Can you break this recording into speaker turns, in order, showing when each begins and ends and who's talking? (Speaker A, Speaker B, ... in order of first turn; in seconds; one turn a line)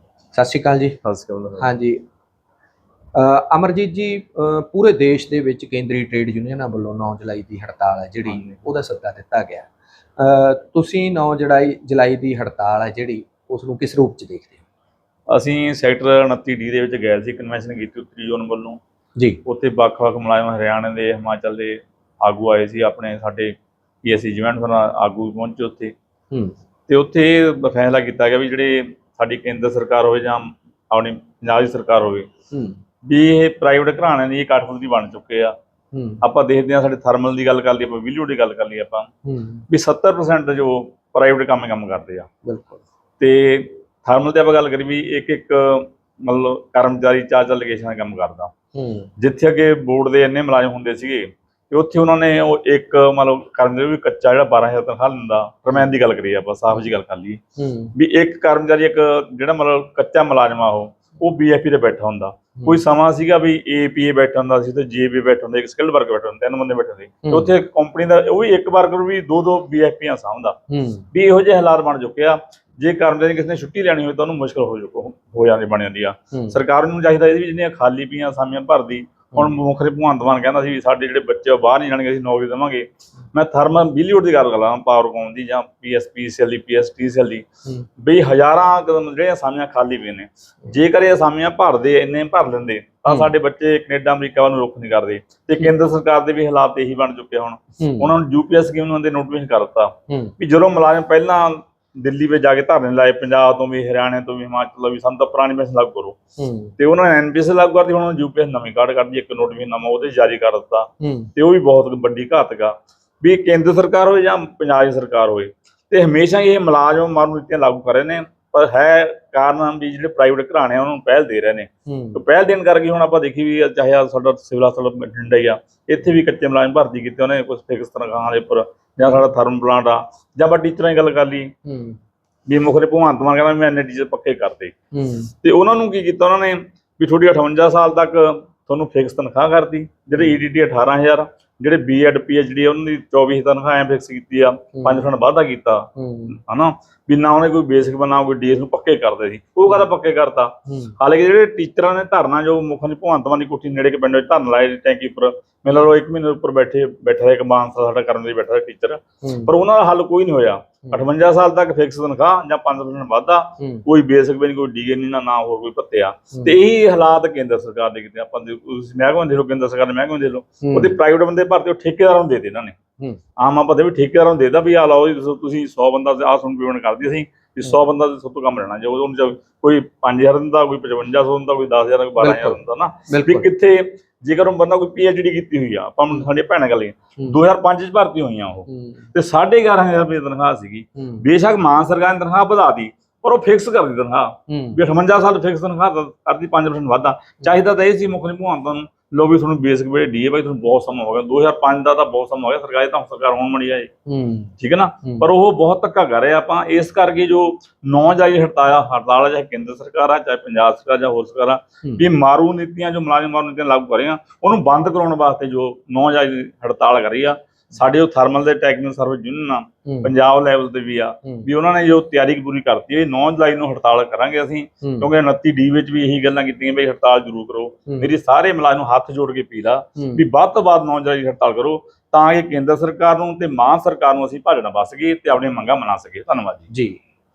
Speaker A: 0.3-1.0
Speaker B: 1.0-1.7
Speaker A: 1.6-2.0
Speaker A: 3.1-14.6
Speaker B: 8.3-8.6
Speaker B: 15.3-18.8
Speaker B: 19.4-25.9
Speaker B: 26.9-32.3
Speaker A: 32.5-32.8
Speaker B: 33.0-35.5
Speaker A: 35.9-36.2
Speaker B: 36.2-39.1
Speaker A: 39.2-39.6
Speaker B: 39.7-42.3
Speaker A: 42.4-42.8
Speaker B: 43.2-48.5
Speaker A: 48.7-49.1
Speaker B: 49.2-57.4
Speaker A: 57.6-57.9
Speaker B: 57.9-70.5
Speaker A: 67.2-67.5
Speaker A: 70.7-71.1
Speaker B: 71.1-87.5
Speaker A: 76.3-76.6
Speaker B: 88.0-106.2
Speaker A: 97.8-98.1
Speaker A: 100.1-100.3
Speaker A: 106.4-106.8
Speaker B: 106.8-131.5
Speaker A: 111.0-111.3
Speaker A: 121.9-122.2
Speaker A: 131.6-132.0
Speaker B: 132.5-134.7
Speaker A: 134.9-135.3
Speaker B: 135.4-172.8
Speaker A: 144.7-145.1
Speaker A: 145.9-146.4
Speaker A: 150.7-150.9
Speaker A: 159.2-159.5
Speaker A: 163.6-163.8
Speaker A: 170.6-171.0
Speaker B: 173.4-203.9
Speaker A: 182.2-183.5
Speaker A: 188.7-189.1
Speaker A: 191.0-191.2
Speaker A: 194.5-194.8
Speaker A: 204.1-204.5
Speaker B: 204.6-236.7
Speaker A: 219.8-220.1
Speaker A: 224.8-225.1
Speaker A: 230.0-230.2
Speaker A: 236.7-237.0